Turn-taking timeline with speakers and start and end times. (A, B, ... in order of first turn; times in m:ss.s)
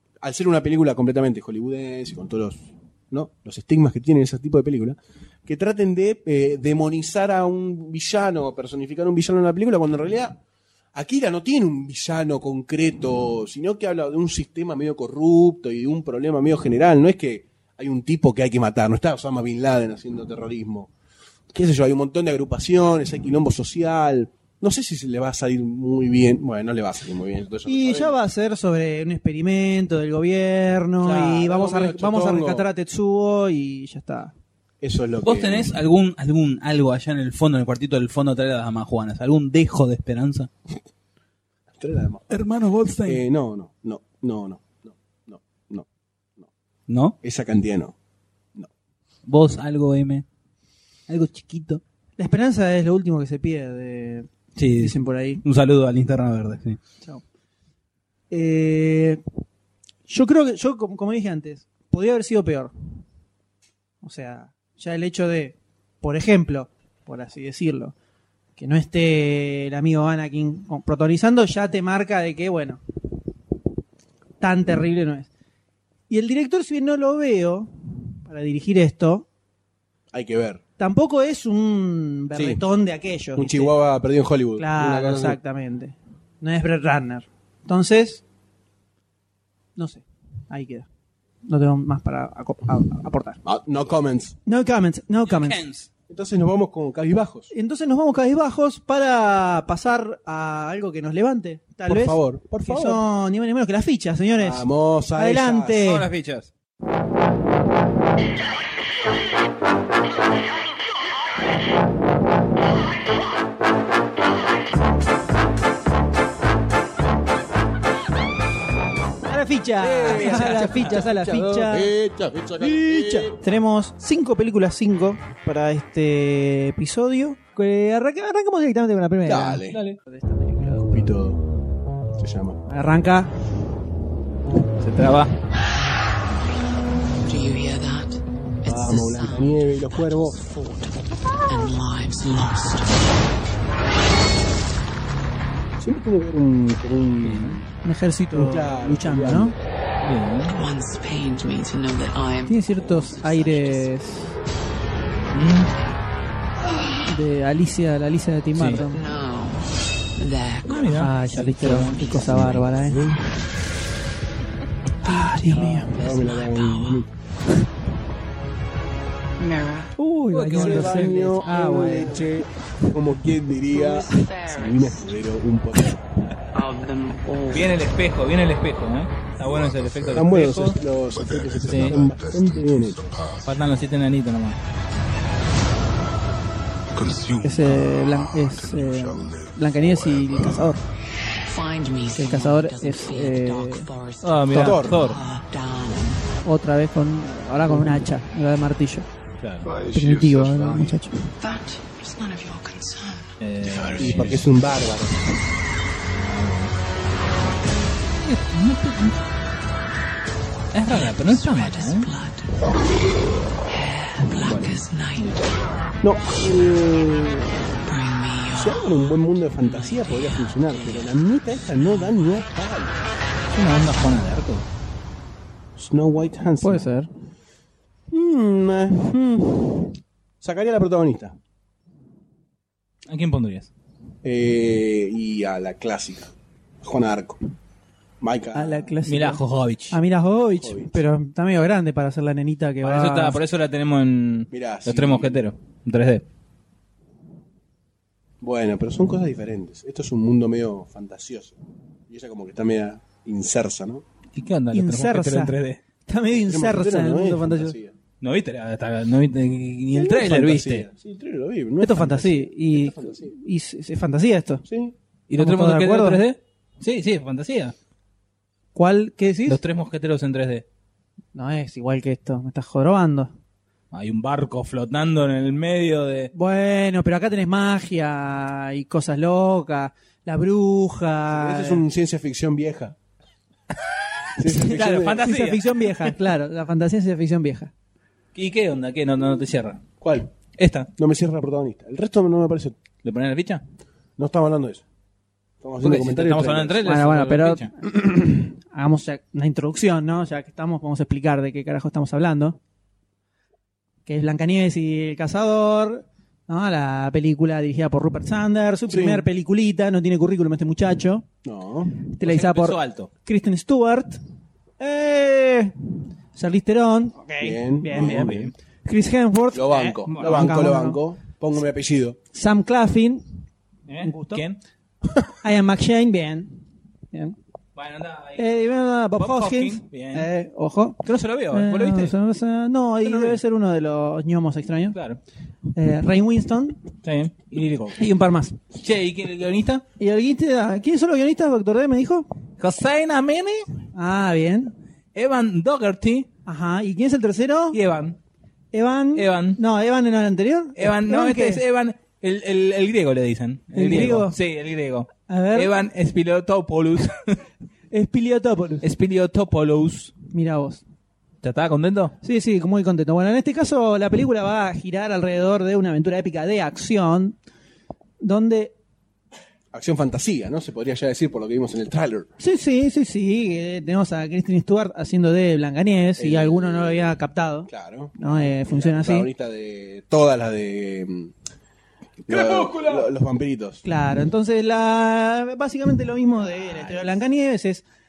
0:00.2-0:10.4 A
0:10.9-0:20.9 A
0:21.5-0:28.2 A
0:27.7-0:34.3 B
0:31.0-0:32.7 A
0:34.8-0:35.8 A
0:35.2-0:40.5 C
0:41.8-0:42.4 A
0:42.3-0:43.2 C
0:43.0-0:45.9 A
0:46.9-0:47.2 C
0:47.2-0:48.0 A
0:49.3-0:50.3 C
0:51.1-0:51.8 C
0:52.2-0:55.4 B
0:54.6-0:56.8 C
0:58.3-0:59.2 B
1:00.1-1:02.7 B
1:04.0-1:08.0 B
1:08.6-1:12.8 B
1:14.4-1:15.3 B
1:16.1-1:17.7 B
1:18.2-1:19.3 B
1:20.1-1:20.6 A
1:20.8-1:23.8 B
1:22.3-1:22.6 A
1:23.4-1:25.4 A
1:24.6-1:28.2 B
1:29.8-1:30.9 B
1:31.5-1:33.4 B
1:33.4-1:34.4 A
1:34.5-1:35.6 B
1:35.3-1:35.9 C
1:36.1-1:37.5 A
1:37.5-1:46.1 B
1:41.9-1:43.0 A
1:44.4-1:45.9 A
1:45.8-1:46.5 C
1:59.3-2:01.9 B
1:59.8-2:01.0 C
2:00.0-2:03.5 A
2:02.6-2:10.9 B
2:09.2-2:09.8 A
2:09.7-2:10.0 C
2:10.9-2:11.4 A
2:12.2-2:12.6 A
2:12.7-2:13.3 B
2:14.8-2:15.3 C
2:17.2-2:23.1 D
2:18.6-2:20.4 A
2:25.8-2:27.7 A
2:27.2-2:27.6 C
2:27.8-2:29.5 B
2:28.3-2:29.6 A
2:30.0-2:30.5 C
2:30.5-2:34.0 D
2:32.5-2:34.4 B
2:35.3-2:35.7 C
2:37.0-2:39.0 B
2:38.6-2:38.8 C
2:38.8-2:43.0 D
2:40.7-2:42.4 C
2:41.0-2:43.0 B
2:45.0-2:47.0 D
2:45.1-2:45.9 B
2:45.4-2:47.1 A
2:49.4-2:49.9 D
2:50.0-2:52.3 B
2:50.3-2:51.7 C
2:50.5-2:56.1 A
2:53.7-2:55.2 D
2:56.5-2:57.9 D
2:57.5-3:00.8 C
2:59.4-3:00.3 E
3:00.1-3:03.2 A
3:01.1-3:03.7 E
3:01.6-3:02.0 C
3:03.4-3:04.6 C
3:06.9-3:10.8 E
3:07.4-3:10.8 B
3:11.4-3:16.3 D
3:12.1-3:13.9 B
3:14.2-3:15.2 C
3:14.5-3:15.0 A
3:16.4-3:19.1 B
3:19.4-3:19.7 C
3:19.6-3:21.0 E
3:19.9-3:21.2 B
3:21.4-3:23.4 D
3:23.4-3:24.4 C
3:23.6-3:24.4 E
3:24.0-3:25.3 A
3:28.2-3:29.2 C
3:30.7-3:32.1 C
3:30.9-3:32.6 D
3:33.7-3:35.6 D
3:34.4-3:34.7 A
3:36.0-3:37.5 A
3:37.9-3:38.9 D
3:38.5-3:43.0 A
3:39.7-3:41.1 D
3:41.7-3:42.1 D
3:43.5-3:44.7 C
3:45.8-3:46.9 A
3:46.6-3:47.1 B
3:48.1-3:49.2 A
3:49.0-3:49.9 B
3:50.4-3:51.4 A
3:53.1-3:53.7 C
3:54.2-3:57.4 A
3:58.2-3:58.9 A
3:58.5-4:03.4 B
3:59.1-4:00.0 C
4:00.6-4:01.0 A
4:02.8-4:06.2 C
4:04.5-4:05.4 A
4:08.4-4:11.6 A
4:12.1-4:14.0 A
4:14.4-4:15.8 C
4:14.7-4:15.5 B
4:16.1-4:17.8 B
4:16.4-4:17.9 A
4:18.2-4:20.9 C
4:19.9-4:23.4 A
4:21.8-4:24.6 B
4:24.6-4:25.0 A
4:25.3-4:27.7 C
4:25.4-4:26.2 B
4:28.8-4:29.6 B
4:29.5-4:30.6 C
4:31.4-4:33.3 B
4:33.9-4:36.3 C
4:36.3-4:41.8 B
4:41.3-4:43.0 A
4:44.4-4:45.3 A
4:44.5-4:46.2 C
4:44.5-4:47.7 B
4:48.4-4:49.8 C
4:50.0-4:50.3 A
4:50.6-4:50.9 C
4:51.0-4:52.8 A
4:53.0-4:53.6 C
4:54.2-4:54.8 A
4:55.6-4:56.9 A
4:55.8-4:57.7 C
4:56.8-5:02.6 B
5:04.1-5:11.3 B
5:08.9-5:09.2 A
5:11.4-5:12.0 A
5:12.1-5:14.2 B
5:12.2-5:13.1 C
5:14.8-5:15.7 B
5:16.4-5:18.3 B
5:17.4-5:18.5 A
5:17.9-5:18.5 C
5:18.8-5:21.0 B
5:19.5-5:22.2 A
5:20.1-5:20.5 C
5:22.3-5:23.2 B
5:23.9-5:24.6 C
5:24.0-5:24.4 B
5:25.4-5:26.6 B
5:27.8-5:28.5 C
5:28.4-5:35.0 B
5:29.2-5:30.3 C
5:31.0-5:32.2 C
5:33.0-5:33.4 C
5:34.9-5:35.2 C
5:35.8-5:36.8 B
5:37.0-5:38.0 C
5:38.0-5:38.6 B
5:38.8-5:39.8 C
5:40.0-5:42.3 B
5:42.6-5:43.7 C
5:43.9-5:44.7 B
5:45.2-5:46.3 C
5:46.5-5:47.8 B
5:47.7-5:48.2 C
5:48.7-5:51.6 B
5:49.2-5:49.6 C
5:50.8-5:57.4 C
5:53.7-5:54.4 B
5:55.3-5:55.7 B
5:57.9-5:58.8 B
5:58.8-6:00.1 C
6:00.3-6:00.8 B
6:01.4-6:02.2 C
6:02.2-6:07.4 B
6:08.2-6:08.7 B
6:09.7-6:12.3 A
6:12.4-6:19.3 B
6:16.2-6:21.3 A
6:22.2-6:23.8 A
6:22.3-6:23.1 C
6:23.8-6:27.8 B
6:26.5-6:27.2 C